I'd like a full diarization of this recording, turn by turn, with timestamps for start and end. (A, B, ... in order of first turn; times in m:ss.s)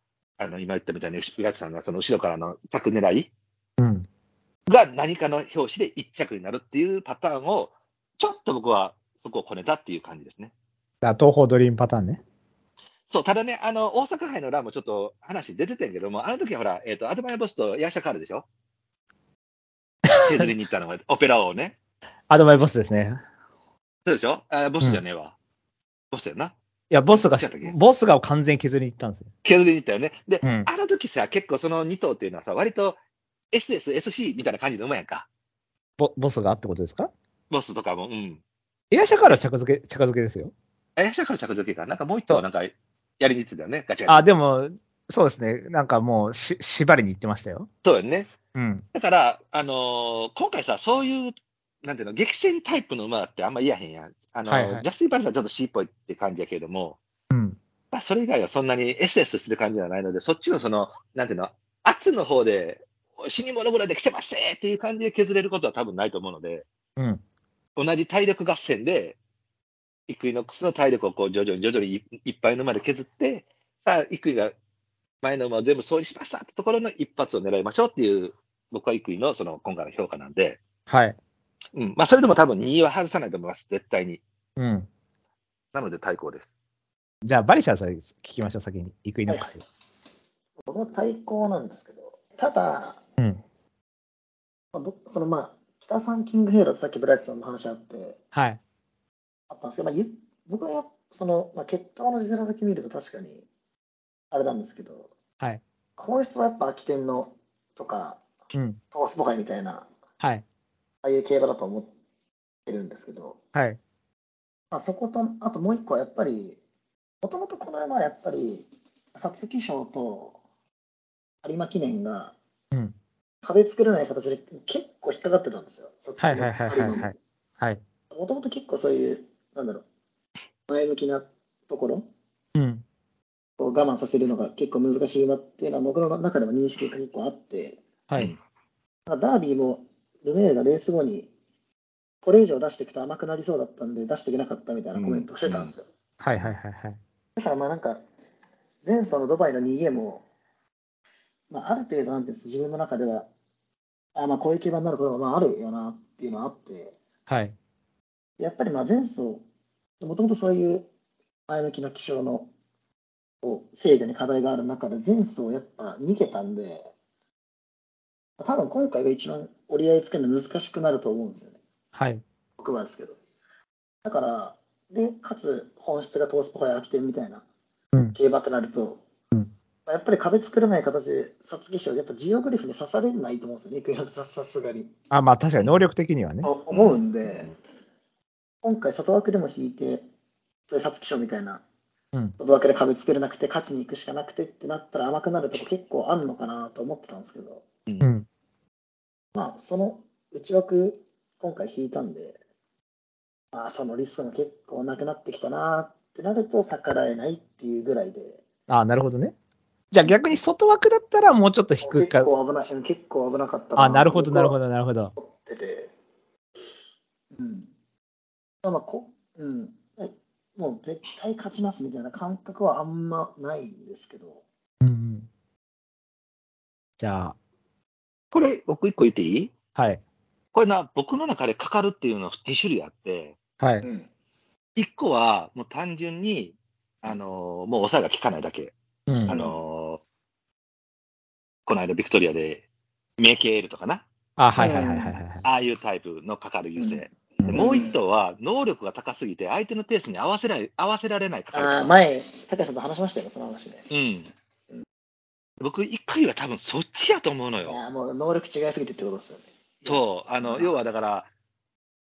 0:00.4-0:03.3 A
0:03.8-0:04.1 B
0:04.7-0:10.5 A
0:11.0-0:12.2 B
0:13.1-0:18.5 A
0:20.2-0:21.8 A
0:22.3-0:23.2 B
0:24.0-0:25.4 A
0:26.1-0:26.5 A
0:26.9-0:29.3 B
0:27.2-0:27.8 A
0:29.4-0:33.0 A
0:30.4-0:30.7 B
0:33.5-0:35.3 A
0:36.0-0:37.1 B
0:37.5-0:38.4 A
0:38.9-0:40.5 B
0:41.0-0:44.3 A
0:44.1-0:47.7 B
0:47.8-0:48.3 A
0:48.5-0:48.8 B
0:48.9-0:57.0 A
0:54.5-0:54.9 B
0:57.3-0:57.6 B
0:57.9-1:06.6 A
1:07.8-1:09.2 A
1:10.1-1:14.5 A
1:15.2-1:20.6 A
1:20.9-1:21.2 B
1:21.7-1:24.2 A
1:24.6-1:24.9 B
1:25.7-1:26.5 A
1:27.2-1:29.6 B
1:29.3-1:29.5 C
1:30.6-1:33.0 C
1:34.7-1:38.2 C
1:38.4-1:38.6 B
1:39.5-1:43.4 C
1:44.3-1:45.1 C
1:46.0-1:48.2 C
1:48.5-1:48.8 B
1:48.9-1:49.9 C
1:51.0-1:51.9 C
1:52.7-1:53.4 C
1:54.7-1:56.6 C
1:57.2-2:00.4 C
2:01.4-2:02.4 C
2:03.4-2:07.1 C
2:06.2-2:07.8 B
2:08.1-2:09.8 C
2:10.7-2:12.1 C
2:12.6-2:12.8 B
2:13.6-2:17.8 C
2:19.1-2:21.3 C
2:22.2-2:25.8 C
2:25.0-2:25.7 A
2:26.2-2:27.0 B
2:27.4-2:28.0 C
2:28.8-2:30.3 C
2:31.5-2:33.3 C
2:34.2-2:37.0 C
2:37.3-2:37.6 B
2:38.4-2:39.4 C
2:40.0-2:40.9 C
2:41.5-2:42.5 C
2:43.4-2:46.9 C
2:48.4-2:51.6 C
2:52.0-2:52.2 B
2:52.6-2:53.2 C
2:54.0-2:57.4 C
2:58.2-2:59.0 C
2:59.9-3:04.9 C
3:05.1-3:06.5 B
3:06.4-3:07.5 C
3:06.7-3:07.5 A
3:08.6-3:10.1 C
3:10.7-3:11.6 C
3:12.4-3:17.6 C
3:18.0-3:18.3 B
3:19.4-3:22.4 C
3:23.5-3:28.4 C
3:28.7-3:29.4 B
3:29.9-3:32.3 B
3:31.8-3:34.6 C
3:33.8-3:35.1 B
3:35.2-3:35.9 C
3:37.3-3:37.7 C
3:38.6-3:44.4 C
3:44.8-3:45.3 B
3:47.0-3:47.4 B
3:48.3-3:49.5 A
3:49.8-3:50.0 B
3:50.5-3:53.4 A
3:53.6-3:53.9 B
3:53.8-3:54.1 C
3:54.8-3:58.7 A
3:59.1-3:59.4 B
3:59.3-4:00.0 A
3:59.3-3:59.6 C
4:01.7-4:02.6 A
4:03.2-4:04.0 A
4:04.4-4:05.4 B
4:04.6-4:05.2 C
4:05.4-4:12.0 A
4:06.8-4:08.0 C
4:11.5-4:13.9 C
4:13.9-4:14.3 A
4:15.6-4:17.8 A
4:17.7-4:20.8 C
4:19.9-4:21.3 A